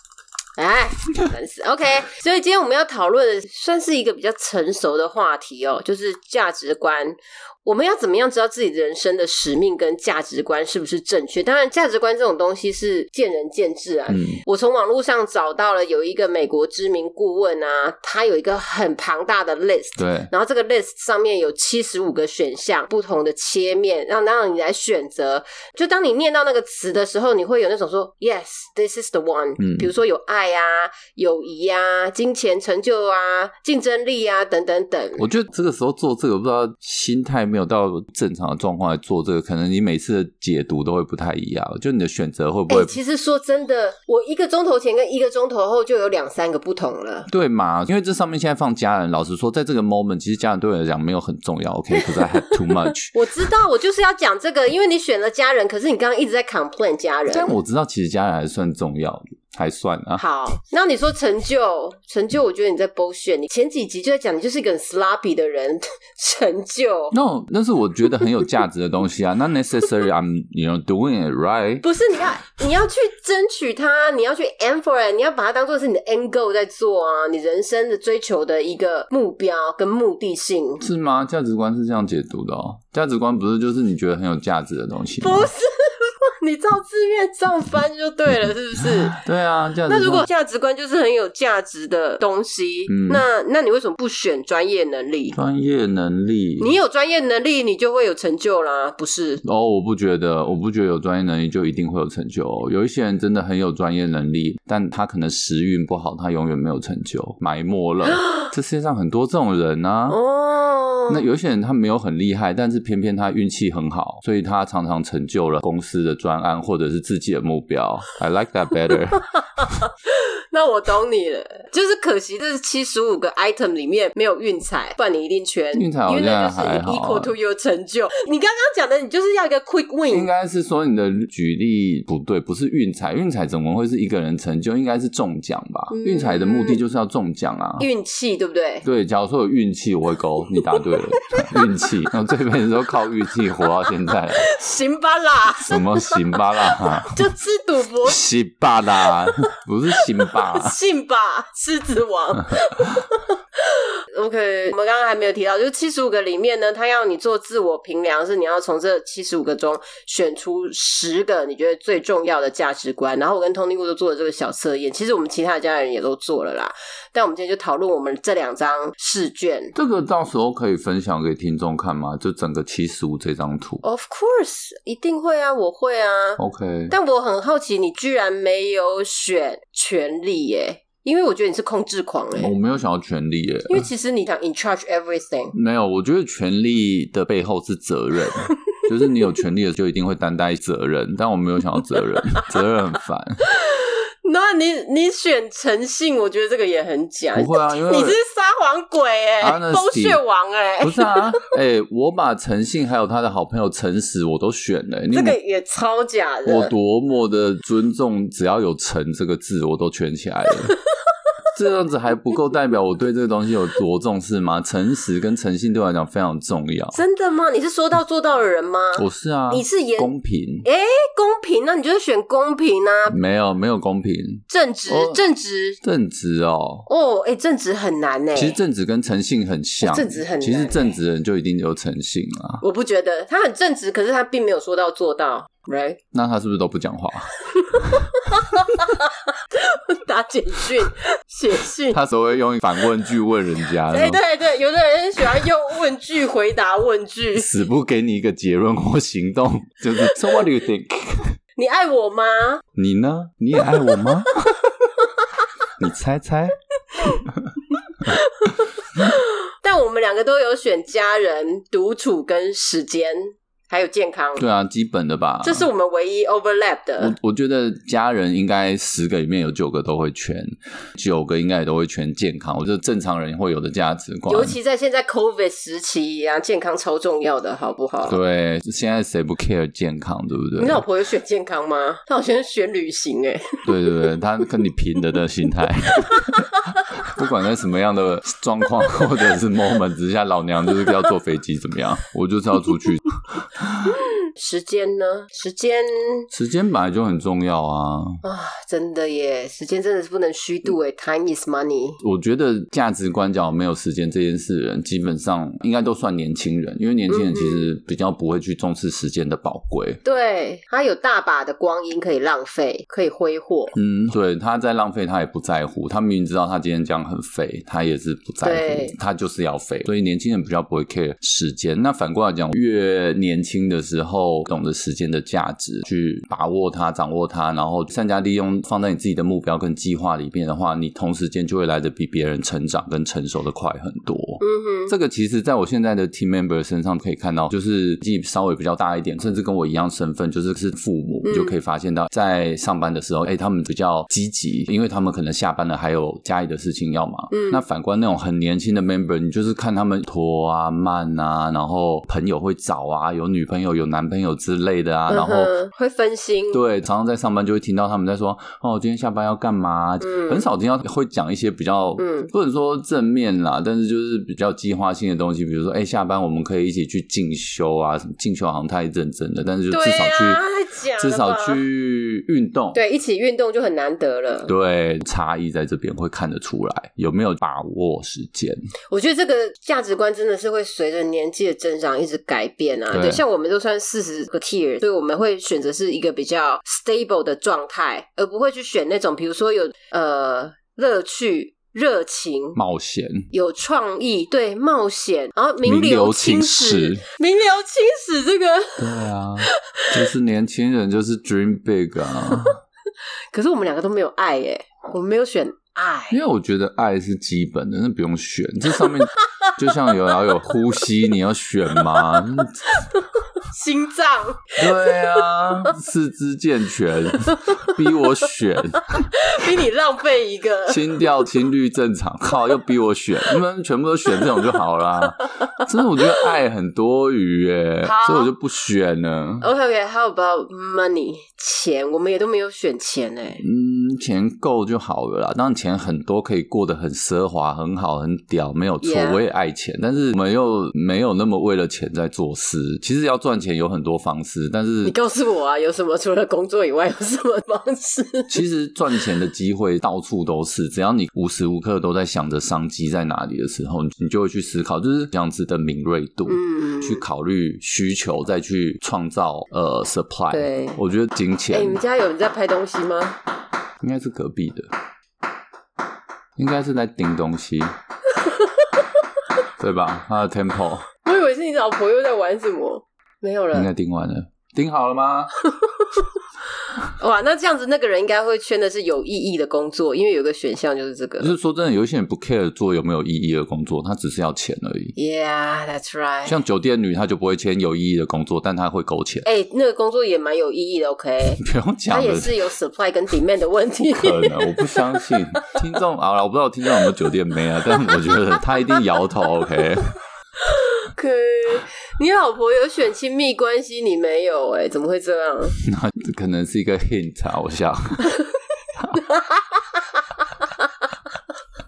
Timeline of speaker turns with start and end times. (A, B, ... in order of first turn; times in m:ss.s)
0:00.6-0:35.3 A
0:14.1-0:14.4 B
0:20.0-0:20.3 B
0:29.6-0:29.9 B
0:35.2-0:43.0 B
0:42.7-0:47.3 A
0:47.3-0:53.2 B
0:52.0-0:52.5 A
0:53.1-0:57.6 A
0:57.3-1:00.2 B
1:00.2-1:07.1 A
1:07.1-1:11.8 B
1:11.8-1:20.8 A
1:20.8-1:25.5 B
1:25.2-1:29.2 A
1:29.1-1:30.3 B
1:29.9-1:35.4 A
1:32.9-1:33.2 B
1:35.3-1:36.8 B
1:36.6-1:39.4 A
1:39.4-1:50.2 B
1:50.1-1:51.2 A
1:51.1-1:59.6 B
1:59.2-2:10.3 A
2:05.8-2:07.3 B
2:10.1-2:17.9 B
2:15.9-2:16.8 A
2:17.8-2:18.9 A
2:18.8-2:24.5 B
2:21.2-2:21.6 A
2:24.4-2:28.2 A
2:25.6-2:27.2 B
2:28.0-2:30.8 B
2:29.0-2:29.3 A
2:30.0-2:49.8 A
2:49.8-2:53.8 B
2:53.8-3:02.5 A
2:56.4-2:57.0 B
3:02.4-3:03.9 B
3:03.7-3:05.6 A
3:05.5-3:13.4 B
3:13.5-3:21.4 A
3:17.4-3:18.2 B
3:19.4-3:20.2 B
3:20.8-3:25.4 B
3:25.1-3:26.7 A
3:26.5-3:30.8 B
3:31.5-3:37.0 B
3:36.9-3:40.1 A
3:39.0-3:40.7 B
3:40.6-3:43.2 A
3:43.1-3:45.2 B
3:44.5-3:45.8 A
3:45.8-3:46.9 B
3:46.9-3:48.6 A
3:48.4-3:52.6 B
3:49.8-3:51.0 A
3:52.6-3:56.0 A
3:56.1-3:58.1 B
3:57.6-4:02.0 A
4:01.9-4:04.2 B
4:03.9-4:07.5 A
4:07.4-4:11.4 B
4:11.6-4:12.6 A
4:12.8-4:14.7 B
4:13.8-4:15.3 A
4:15.8-4:17.6 B
4:17.8-4:24.4 A
4:24.4-4:25.7 B
4:25.4-4:27.2 A
4:27.0-4:34.6 B
4:34.3-4:38.2 A
4:38.0-4:40.8 B
4:40.6-4:44.0 A
4:43.6-4:54.0 B
4:54.4-4:56.3 A
4:56.3-4:58.2 B
4:58.2-5:02.0 A
5:02.0-5:10.0 B
5:07.1-5:07.7 A
5:10.0-5:13.8 A
5:13.8-5:55.5 B
5:18.4-5:19.0 A
5:34.4-5:34.9 A
5:41.2-5:41.6 A
5:47.3-5:47.6 A
5:55.1-5:56.6 A
5:56.5-6:10.4 B
6:00.0-6:00.5 A
6:02.0-6:02.3 A
6:09.7-6:11.6 A
6:11.0-6:12.8 B
6:12.7-6:14.5 A
6:14.5-6:18.6 B
6:18.9-6:32.6 A
6:22.9-6:23.2 B
6:32.6-6:33.3 B
6:33.3-6:39.9 A
6:35.6-6:37.0 B
6:38.8-6:42.6 B
6:42.3-6:42.6 A
6:43.3-6:46.2 A
6:46.1-6:52.7 B
6:52.7-6:55.7 A
6:54.6-6:59.2 B
6:57.2-6:57.8 A
6:58.8-7:01.1 A
7:00.7-7:09.5 B
7:07.8-7:08.3 A
7:09.4-7:13.4 A
7:13.4-7:25.0 B
7:18.8-7:19.2 A
7:24.8-7:28.4 A
7:28.3-7:41.8 B
7:36.3-7:37.0 A
7:40.3-7:40.8 A
7:41.5-7:43.2 A
7:43.8-7:44.7 B
7:46.4-7:47.7 B
7:48.2-7:48.8 A
7:49.6-7:50.9 B
7:51.0-7:53.7 A
7:53.5-7:55.3 B
7:55.5-7:56.1 A
7:56.8-8:01.3 A
8:01.2-8:05.0 B
8:05.0-8:06.4 A
8:06.3-8:09.3 B
8:09.2-8:15.6 A
8:11.4-8:12.5 B
8:14.0-8:20.0 B
8:20.4-8:25.6 A
8:25.6-8:28.2 B
8:29.0-8:29.6 A